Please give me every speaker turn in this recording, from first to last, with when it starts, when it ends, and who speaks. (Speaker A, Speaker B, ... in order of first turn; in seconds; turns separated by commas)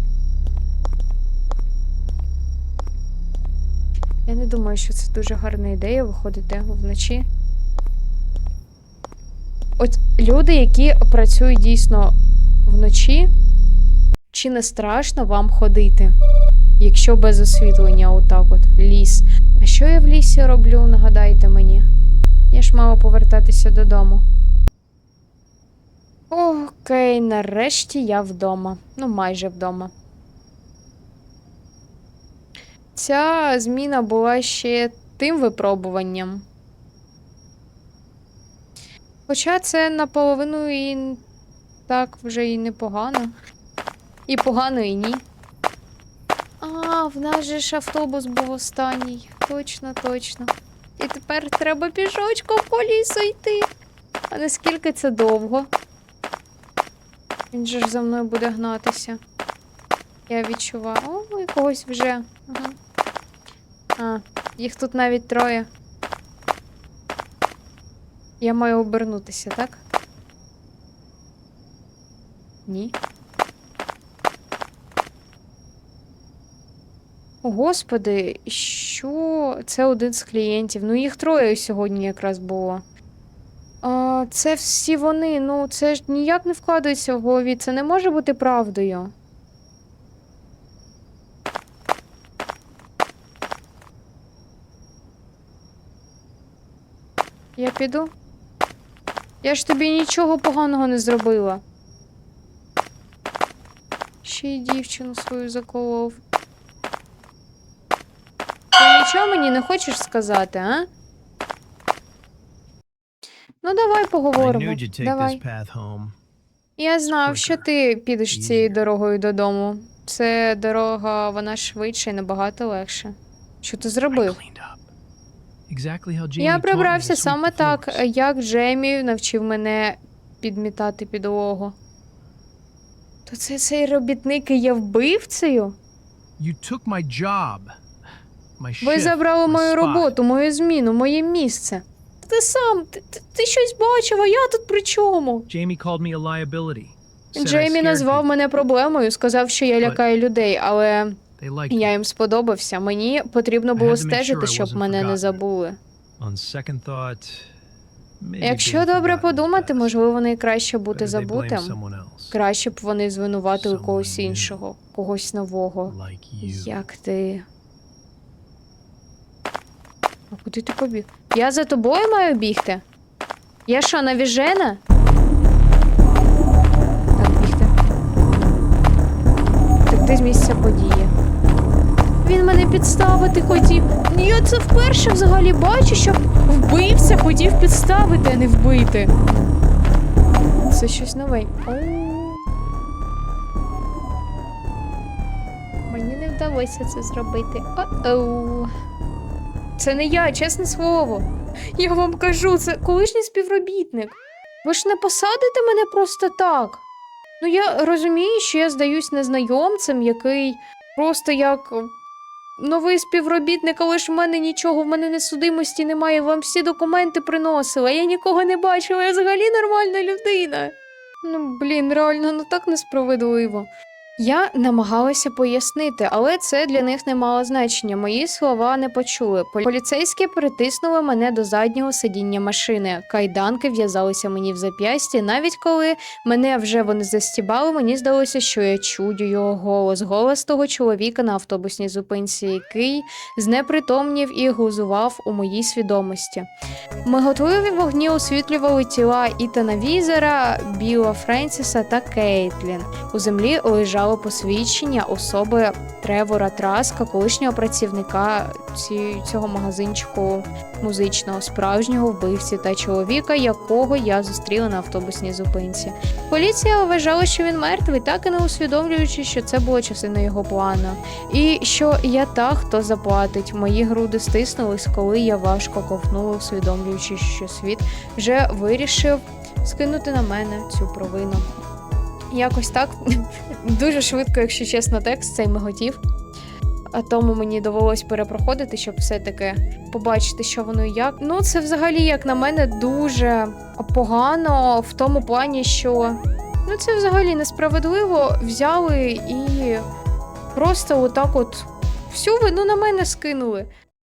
Speaker A: 4.2-7.2, Speaker A: 9.8-13.3, Speaker A: 14.3-16.2, Speaker A: 16.8-21.9, Speaker A: 22.5-24.2, Speaker A: 26.3-29.9, Speaker A: 32.9-36.4, Speaker A: 39.3-41.2, Speaker A: 41.9-43.3, Speaker A: 44.3-45.2, Speaker A: 46.6-53.7, Speaker A: 54.3-55.7, Speaker A: 57.5-59.2, Speaker A: 60.3-62.8, Speaker A: 64.0-65.7, Speaker A: 68.4-69.8, Speaker A: 72.7-72.9, Speaker A: 77.4-82.8, Speaker A: 83.8-89.1, Speaker A: 97.6-98.1, Speaker A: 99.4-101.6, Speaker A: 104.2-106.2, Speaker A: 108.8-110.9, Speaker A: 113.6-115.4, Speaker B: 114.3-116.2, Speaker A: 116.8-124.4, Speaker B: 117.0-117.7, Speaker B: 118.3-118.8, Speaker B: 124.1-124.9, Speaker B: 125.7-128.0, Speaker A: 126.4-131.8, Speaker A: 133.2-135.8, Speaker B: 136.4-137.7, Speaker B: 138.6-140.1, Speaker A: 138.8-145.5, Speaker B: 145.5-148.3, Speaker A: 147.3-155.8, Speaker B: 151.4-151.9, Speaker B: 153.8-155.4, Speaker B: 156.2-157.5, Speaker B: 158.2-159.9, Speaker A: 158.4-161.8, Speaker B: 160.9-162.4, Speaker A: 162.3-167.4, Speaker B: 163.5-164.6, Speaker B: 165.8-166.8, Speaker A: 170.3-172.8, Speaker A: 173.7-174.8, Speaker A: 177.2-177.7, Speaker A: 179.9-181.1, Speaker A: 182.2-189.1, Speaker A: 190.7-192.4, Speaker A: 195.9-198.7, Speaker A: 199.8-206.8, Speaker A: 207.4-211.9, Speaker A: 212.6-246.5, Speaker A: 247.0-281.4, Speaker A: 282.3-283.0, Speaker A: 283.6-286.0, Speaker A: 286.9-299.8, Speaker A: 300.5-303.7